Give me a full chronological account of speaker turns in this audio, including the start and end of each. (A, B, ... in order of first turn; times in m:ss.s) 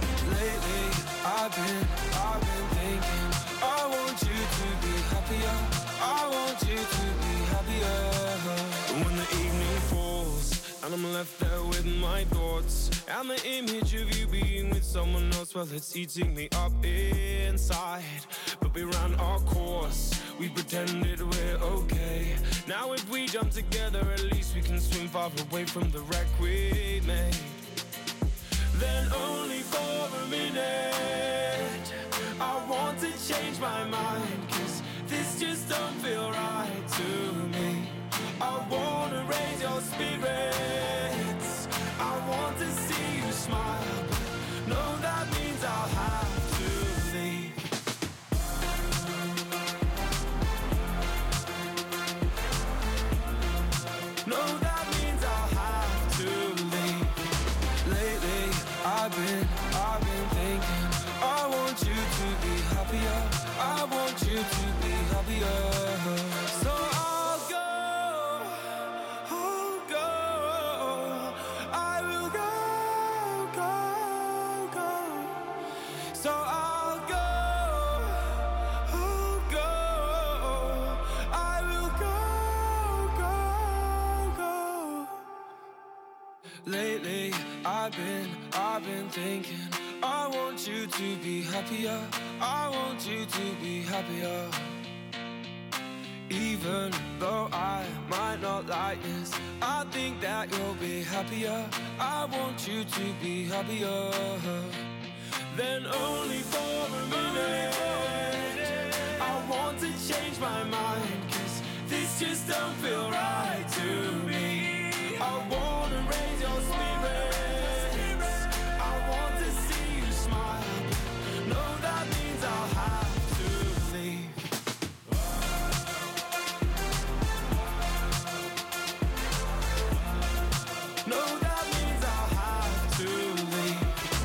0:00.2-0:27.6 A
0:28.7-0:47.6 A
0:54.2-0:57.2 A
0:57.8-1:15.5 A
1:16.1-1:25.2 A
1:26.6-1:34.8 A
1:36.3-1:44.9 A
1:45.5-2:04.4 A
2:11.0-2:14.0 A